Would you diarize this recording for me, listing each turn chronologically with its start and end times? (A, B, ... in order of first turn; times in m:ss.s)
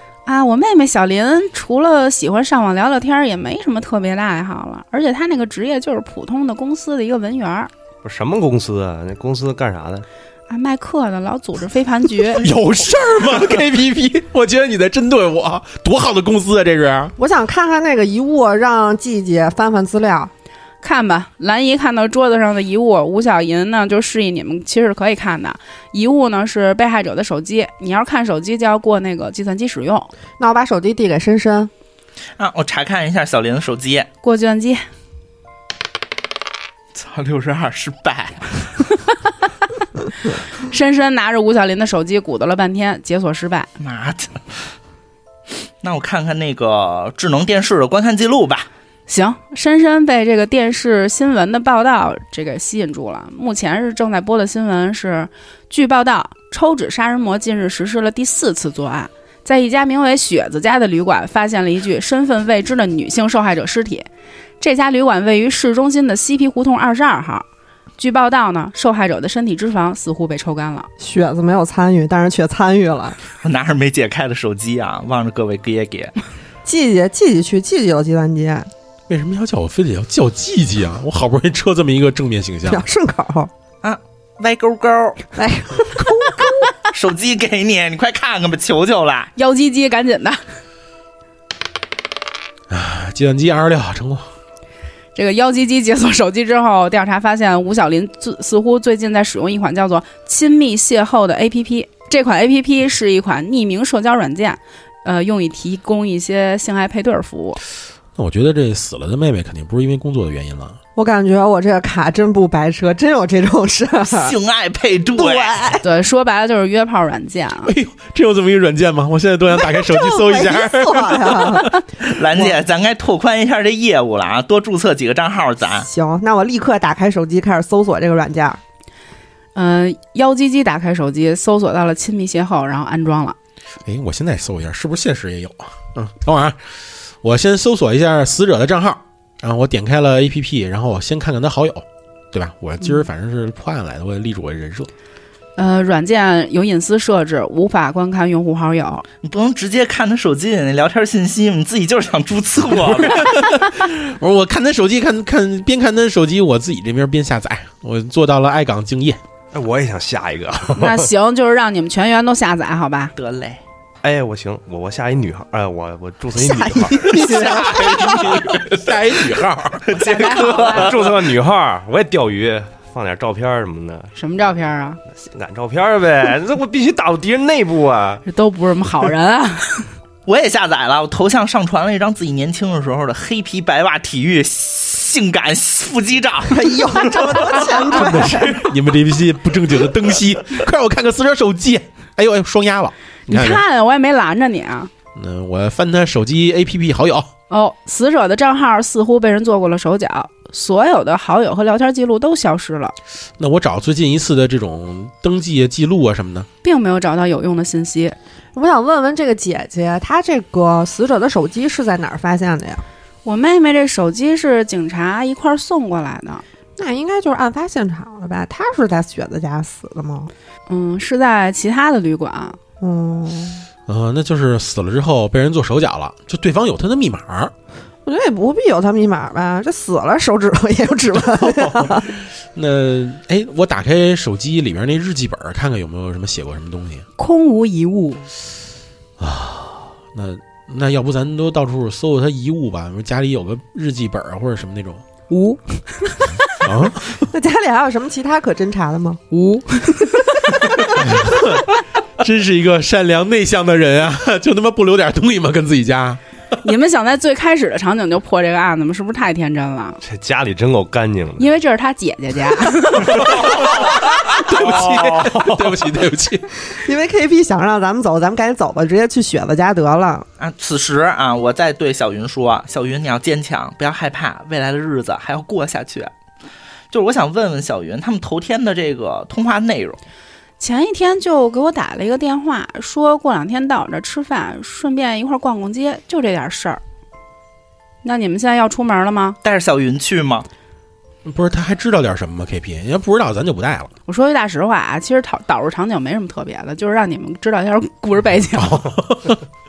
0:00.2-0:07.7 A
0:08.0-0:10.0 B
0:10.5-0:12.4 A
0:12.4-0:17.1 C
0:17.2-0:20.3 D
0:20.8-0:30.1 A
0:30.4-0:31.7 D
0:32.4-0:34.1 E
0:34.2-0:34.8 A
0:36.9-0:38.6 E
0:40.6-0:43.7 A
0:43.8-0:44.4 E
0:45.8-0:48.7 E
0:49.1-1:04.0 A
1:04.6-1:07.4 A
1:08.0-1:10.9 A
1:11.0-1:13.2 D
1:13.4-1:16.1 E
1:16.6-1:18.7 D
1:19.1-1:22.8 C
1:22.7-1:23.5 D
1:23.8-1:25.3 E
1:25.4-1:26.7 D
1:26.9-1:29.3 E
1:29.4-1:30.4 A
1:32.7-1:34.3 C
1:35.1-1:47.6 A
1:48.2-1:50.8 C
1:51.0-1:54.3 D
1:54.1-1:55.8 E
1:55.1-1:55.8 D
1:55.8-1:57.7 A
1:57.6-2:01.7 C
1:59.5-2:01.8 D
2:02.0-2:05.9 E
2:05.8-2:08.6 D
2:09.5-2:13.4 A
2:13.8-2:16.6 C
2:17.2-2:24.9 C
2:25.6-2:29.0 A
2:29.2-2:33.3 E
2:32.9-2:39.2 C
2:39.5-2:41.1 B
2:40.8-2:43.1 A
2:43.2-2:43.6 E
2:44.0-2:47.0 B
2:46.4-2:48.2 D
2:47.2-2:48.4 E
2:47.2-2:49.9 C
2:49.8-2:51.2 E
2:49.9-2:50.9 A
2:50.7-2:54.1 B
2:54.1-2:55.0 A
2:55.2-2:58.2 B
2:58.2-2:59.9 A
3:00.2-3:07.9 E
3:06.5-3:08.7 D
3:07.7-3:13.6 C
3:13.3-3:14.9 A
3:15.1-3:17.3 C
3:17.5-3:23.0 A
3:23.4-3:26.5 C
3:26.6-3:28.2 A
3:28.5-3:32.8 D
3:33.2-3:36.4 A
3:36.8-3:40.3 D
3:40.7-3:42.6 A
3:42.8-3:43.6 D
3:43.9-3:47.5 C
3:48.0-3:52.1 D
3:51.2-3:57.0 C
3:57.2-3:58.2 A
3:59.2-4:05.0 C
4:05.3-4:06.3 A
4:06.5-4:07.2 C
4:07.2-4:09.2 D
4:09.3-4:10.6 A
4:10.9-4:11.6 C
4:12.2-4:16.2 C
4:16.6-4:20.0 A
4:20.0-4:21.5 B
4:21.4-4:23.3 A
4:23.2-4:26.5 C
4:24.5-4:25.9 B
4:26.7-4:30.2 D
4:30.4-4:36.1 E
4:36.9-4:40.0 E
4:40.6-4:46.8 A
4:48.0-4:49.4 A
4:49.4-4:50.5 E
4:51.2-4:53.9 C
4:54.1-4:58.8 A
4:58.6-4:59.4 C